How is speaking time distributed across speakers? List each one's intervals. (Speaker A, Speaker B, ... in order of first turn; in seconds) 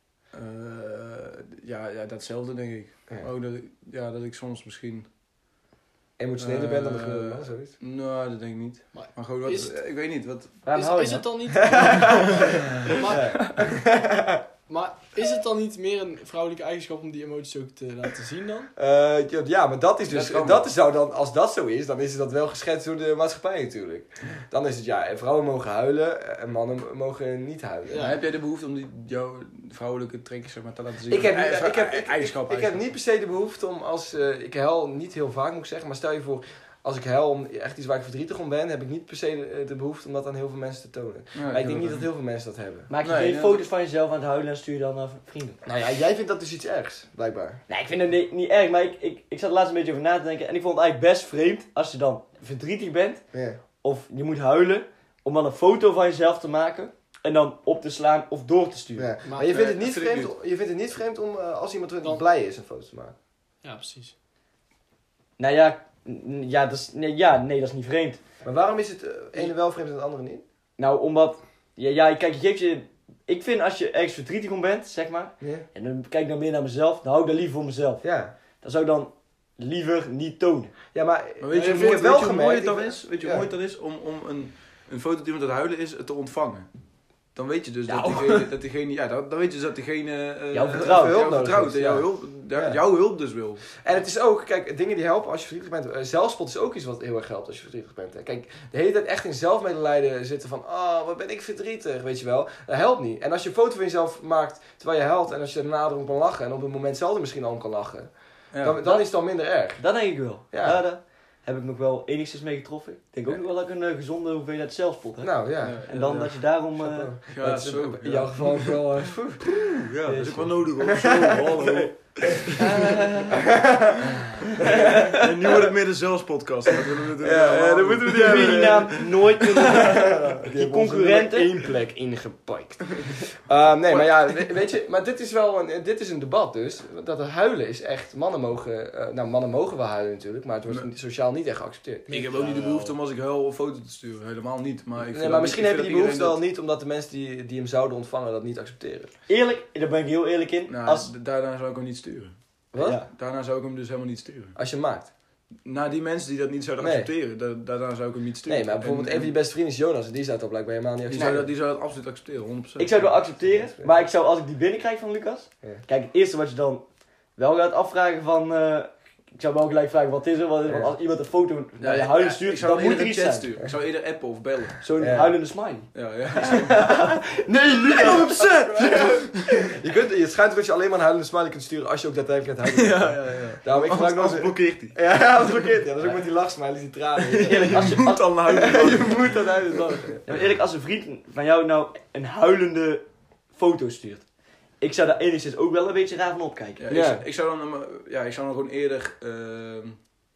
Speaker A: 0.3-5.1, 6.4-10.6, 11.8-12.6, 20.1-20.6, 27.9-32.8, 41.3-42.0, 43.0-43.6, 59.5-60.3, 81.4-86.7, 87.2-93.6, 108.5-108.8, 115.6-116.4, 117.3-123.2, 124.6-128.9, 133.9-134.3, 142.1-146.4, 150.7-152.4, 153.0-154.6, 155.5-159.3, 161.1-163.1, 171.8-174.8, 175.9-177.0, 178.3-179.2, 182.7-185.0, 187.3-190.4, 196.8-200.1
Speaker B: 6.2-7.8, 10.7-12.4, 13.1-14.4, 18.8-28.1, 31.1-42.9, 45.6-47.6, 53.3-53.6, 59.0-63.1, 68.4-70.4, 75.4-75.7, 78.0-78.3, 80.9-83.5, 87.9-88.5, 90.7-92.8, 93.8-110.8, 115.2-115.8, 116.8-119.7, 120.8-121.9, 123.3-125.7, 126.7-129.1, 129.6-142.9, 145.0-149.1, 152.7-153.0, 154.6-155.1, 156.8-157.1, 158.4-161.5, 163.4-163.9, 170.7-170.9, 175.0-175.4, 177.9-190.2, 196.9-197.2
Speaker C: 8.9-9.8, 10.6-13.8, 14.7-18.7, 27.9-28.2, 59.2-59.5, 63.6-64.1, 81.5-82.1, 142.1-142.4
Speaker D: 42.9-45.6, 47.7-59.1, 65.4-68.2, 70.8-80.7, 90.5-91.2, 108.8-109.1, 109.8-117.1, 120.0-120.7, 124.6-125.1, 128.2-131.5, 149.3-151.1, 152.8-153.1, 162.8-173.5, 174.8-179.2, 187.5-188.9, 190.2-194.3, 194.8-196.8